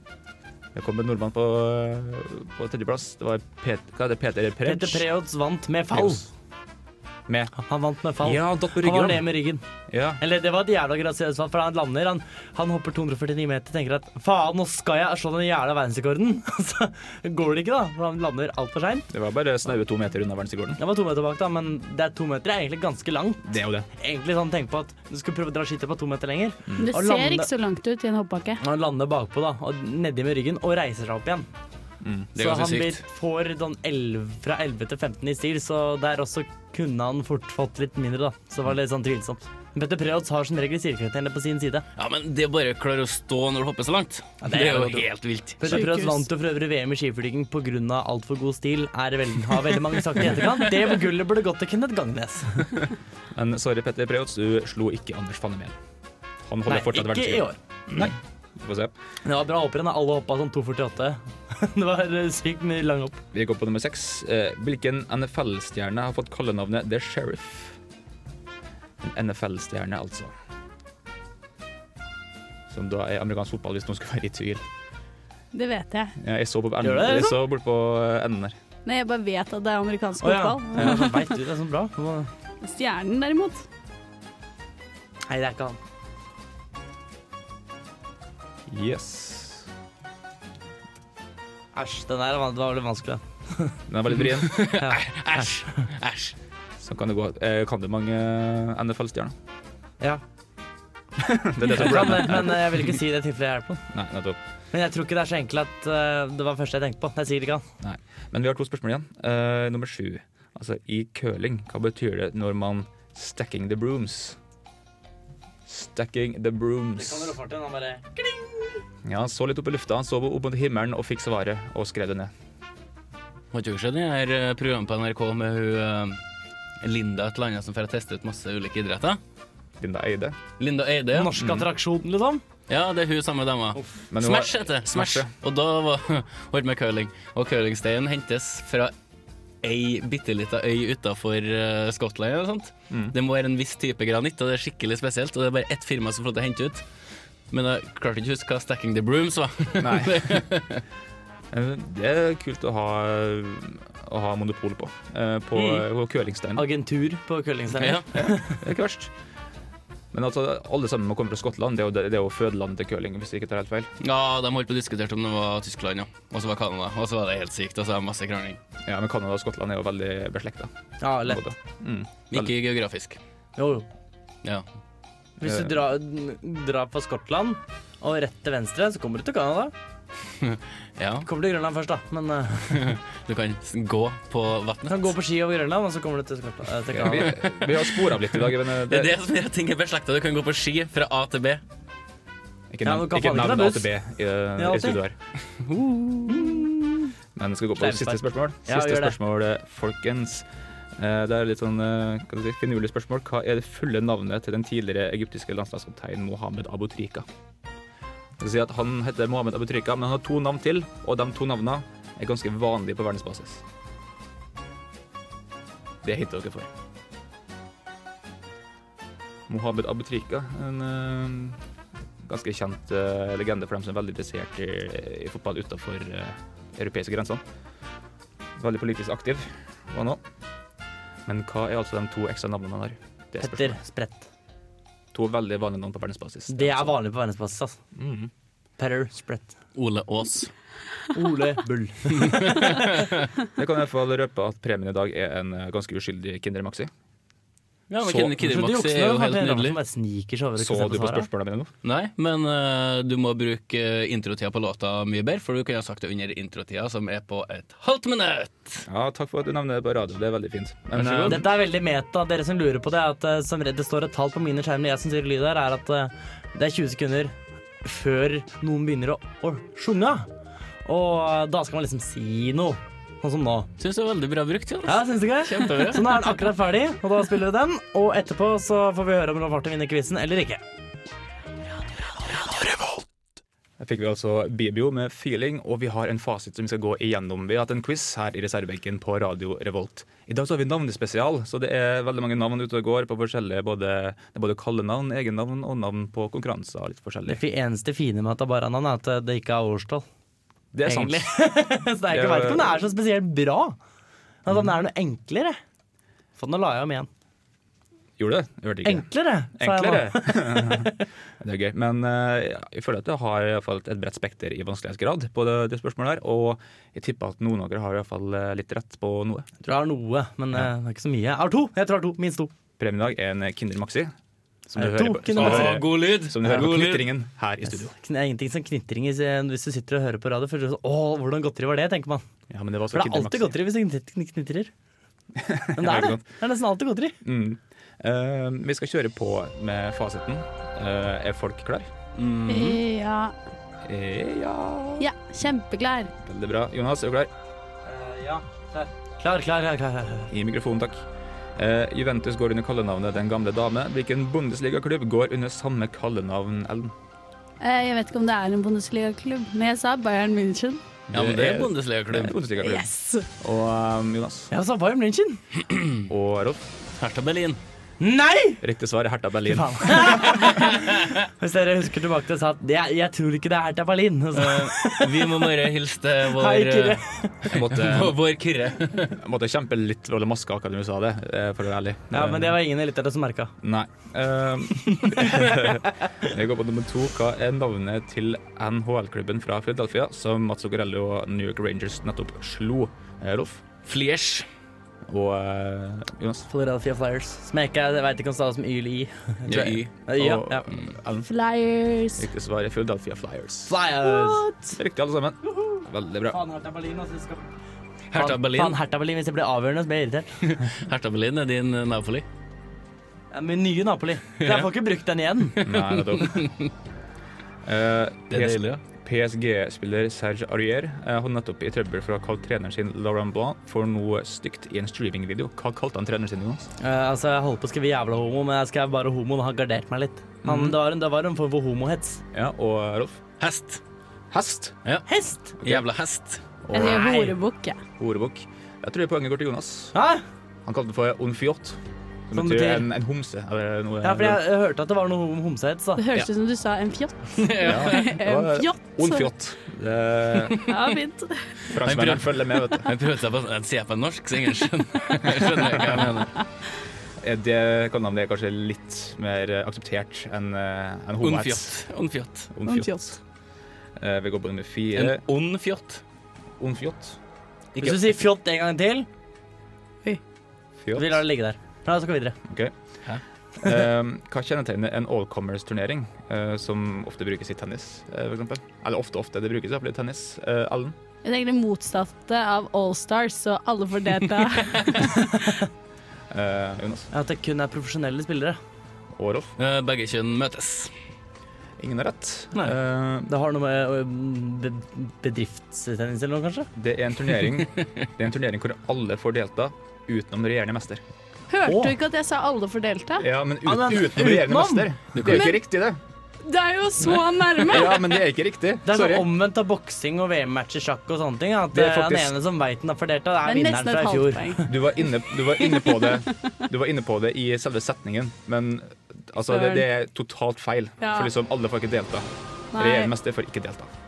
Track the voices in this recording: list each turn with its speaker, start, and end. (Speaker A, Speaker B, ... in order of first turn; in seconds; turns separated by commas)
Speaker A: 0.7-5.1, Speaker B: 4.6-6.3, Speaker A: 5.9-6.2, Speaker A: 7.3-7.5, Speaker B: 7.6-9.6, Speaker A: 8.2-9.3, Speaker A: 9.9-10.2, Speaker B: 10.2-19.1, Speaker A: 19.1-20.8, Speaker B: 20.8-27.5, Speaker A: 23.4-23.9, Speaker A: 26.6-26.9, Speaker C: 26.8-28.6, Speaker B: 28.6-31.5, Speaker A: 32.0-32.3, Speaker D: 32.4-33.0, Speaker B: 32.4-41.9, Speaker D: 42.0-45.8, Speaker B: 44.4-45.1, Speaker B: 45.6-52.7, Speaker C: 45.6-46.2, Speaker A: 53.3-55.8, Speaker A: 56.5-58.9, Speaker B: 56.7-57.6, Speaker B: 59.2-63.2, Speaker A: 63.3-67.8, Speaker A: 69.0-70.3, Speaker A: 72.7-74.6, Speaker C: 75.5-76.2, Speaker A: 76.2-78.6, Speaker B: 76.8-77.4, Speaker C: 78.8-81.2, Speaker B: 80.2-82.3, Speaker A: 80.8-81.0, Speaker C: 82.6-83.6, Speaker B: 85.3-85.8, Speaker A: 88.7-89.7, Speaker B: 91.8-93.8, Speaker A: 93.9-94.7, Speaker D: 94.4-96.3, Speaker B: 94.8-95.4, Speaker A: 96.8-99.3, Speaker A: 101.2-103.0, Speaker B: 101.6-103.8, Speaker A: 103.9-104.4, Speaker B: 104.7-107.6, Speaker A: 107.8-114.4, Speaker A: 115.7-117.4, Speaker B: 117.0-118.8, Speaker A: 119.0-122.3, Speaker D: 123.5-126.2, Speaker D: 126.8-129.2, Speaker A: 129.8-130.4, Speaker D: 130.6-131.3, Speaker B: 131.1-132.4, Speaker A: 131.4-131.7, Speaker D: 132.7-138.9, Speaker A: 134.1-135.3, Speaker D: 139.6-146.8, Speaker A: 142.9-143.1, Speaker D: 147.5-150.8, Speaker A: 149.8-150.5, Speaker A: 151.5-156.7, Speaker D: 155.6-155.8, Speaker B: 156.6-158.6, Speaker D: 157.8-158.1, Speaker A: 158.1-159.1, Speaker A: 160.1-163.9, Speaker D: 164.0-168.6, Speaker A: 168.8-170.7, Speaker B: 171.0-171.4, Speaker A: 171.2-172.5, Speaker D: 172.3-173.2, Speaker B: 173.6-173.9, Speaker A: 175.4-175.8, Speaker B: 175.4-179.7, Speaker D: 180.4-181.3, Speaker B: 181.2-182.9, Speaker D: 182.7-185.1, Speaker B: 184.9-187.3, Speaker A: 186.9-189.1, Speaker D: 187.1-191.6, Speaker A: 192.7-195.2, Speaker B: 192.8-193.9, Speaker B: 194.6-195.0, Speaker D: 195.7-196.5, Speaker B: 196.2-197.1, Speaker A: 197.4-207.3, Speaker B: 197.8-199.2, Speaker A: 208.4-213.6, Speaker A: 216.0-216.7, Speaker A: 219.5-221.6, Speaker A: 222.2-227.4, Speaker A: 228.6-230.2, Speaker A: 231.3-233.8, Speaker B: 233.4-234.3, Speaker A: 235.1-237.0, Speaker B: 236.5-237.8, Speaker A: 237.9-238.3, Speaker B: 238.8-239.5, Speaker D: 239.8-240.5, Speaker B: 241.1-242.8, Speaker D: 242.2-243.3, Speaker A: 243.6-246.9, Speaker D: 247.9-249.8, Speaker A: 248.0-248.3, Speaker B: 248.4-251.3, Speaker A: 250.6-251.7, Speaker D: 251.8-258.8, Speaker A: 258.9-261.5, Speaker D: 260.9-261.4, Speaker B: 261.3-270.3, Speaker B: 270.9-273.7, Speaker D: 273.8-276.2, Speaker B: 274.9-280.6, Speaker B: 282.3-283.0, Speaker A: 283.8-297.4, Speaker B: 297.3-300.1, Speaker A: 300.7-301.4, Speaker B: 300.9-303.8, Speaker A: 302.1-302.8, Speaker B: 304.4-305.6, Speaker B: 306.4-307.1, Speaker A: 308.2-319.5, Speaker B: 308.8-310.9, Speaker B: 319.6-322.5, Speaker A: 322.8-324.1, Speaker A: 324.7-327.9, Speaker B: 324.8-325.8, Speaker D: 325.3-327.1, Speaker B: 327.7-332.2, Speaker A: 332.5-333.6, Speaker B: 332.9-334.7, Speaker A: 335.4-336.2, Speaker B: 335.8-337.2, Speaker A: 337.2-341.9, Speaker D: 342.1-342.8, Speaker C: 342.5-343.3, Speaker A: 343.9-345.1, Speaker C: 345.0-346.1, Speaker A: 346.2-347.3, Speaker B: 347.9-350.3, Speaker A: 350.3-351.0, Speaker A: 351.6-356.9, Speaker C: 357.6-360.8, Speaker A: 361.1-364.5, Speaker D: 361.1-362.4, Speaker C: 362.6-363.3, Speaker B: 364.5-365.4, Speaker D: 365.7-366.0, Speaker A: 366.1-366.6, Speaker D: 367.0-367.6, Speaker B: 368.0-368.6, Speaker A: 368.6-370.5, Speaker B: 369.5-375.4, Speaker D: 370.6-371.1, Speaker D: 374.4-379.1, Speaker B: 376.3-377.5, Speaker A: 377.5-378.2, Speaker A: 379.1-382.6, Speaker B: 382.1-383.5, Speaker A: 383.6-393.6, Speaker B: 384.9-385.7, Speaker D: 393.9-394.5, Speaker A: 395.1-396.5, Speaker B: 396.5-400.6, Speaker D: 399.5-399.9, Speaker A: 399.5-401.3, Speaker C: 401.2-402.3, Speaker A: 402.1-403.8, Speaker B: 403.7-404.5, Speaker C: 404.1-404.6, Speaker A: 404.8-406.4, Speaker B: 406.3-407.5, Speaker D: 408.1-408.8, Speaker B: 408.1-410.3, Speaker D: 410.4-412.2, Speaker B: 413.3-415.7, Speaker A: 415.6-416.5, Speaker D: 415.6-416.7, Speaker A: 417.6-426.7, Speaker D: 418.3-418.8, Speaker B: 426.8-432.2, Speaker A: 430.4-430.8, Speaker A: 432.3-433.2, Speaker D: 433.4-433.8, Speaker A: 434.3-434.8, Speaker B: 435.1-435.5, Speaker A: 435.6-435.9, Speaker D: 435.6-436.4, Speaker A: 436.6-437.1, Speaker C: 436.7-437.8, Speaker B: 436.8-437.3, Speaker A: 438.0-439.9, Speaker B: 439.9-440.2, Speaker A: 440.6-444.4, Speaker B: 442.3-442.9, Speaker B: 444.0-446.0, Speaker C: 445.9-449.3, Speaker D: 447.4-448.1, Speaker A: 447.6-450.6, Speaker C: 450.7-451.6, Speaker A: 451.7-452.9, Speaker D: 451.8-456.4, Speaker A: 457.2-461.8, Speaker D: 461.2-462.5, Speaker A: 462.5-463.2, Speaker C: 462.6-463.1, Speaker A: 464.0-465.2, Speaker D: 464.9-466.0, Speaker A: 466.6-467.2, Speaker D: 467.8-468.0, Speaker B: 467.8-469.1, Speaker A: 470.8-471.2, Speaker B: 470.9-472.4, Speaker A: 472.5-472.7, Speaker A: 473.6-481.0, Speaker C: 481.2-485.4, Speaker A: 486.3-487.1, Speaker B: 487.1-488.6, Speaker A: 489.1-489.5, Speaker D: 489.6-490.9, Speaker A: 491.8-493.3, Speaker B: 493.3-496.7, Speaker A: 496.8-501.0, Speaker C: 501.5-503.3, Speaker B: 501.6-501.9, Speaker A: 503.2-506.0, Speaker B: 503.6-504.9, Speaker D: 505.1-505.5, Speaker C: 505.3-505.6, Speaker C: 506.4-508.2, Speaker A: 507.6-509.3, Speaker B: 508.9-514.7, Speaker A: 511.7-512.4, Speaker C: 513.4-514.7, Speaker A: 514.6-523.9, Speaker C: 515.6-516.2, Speaker C: 519.5-519.9, Speaker C: 521.0-521.3, Speaker C: 522.7-523.1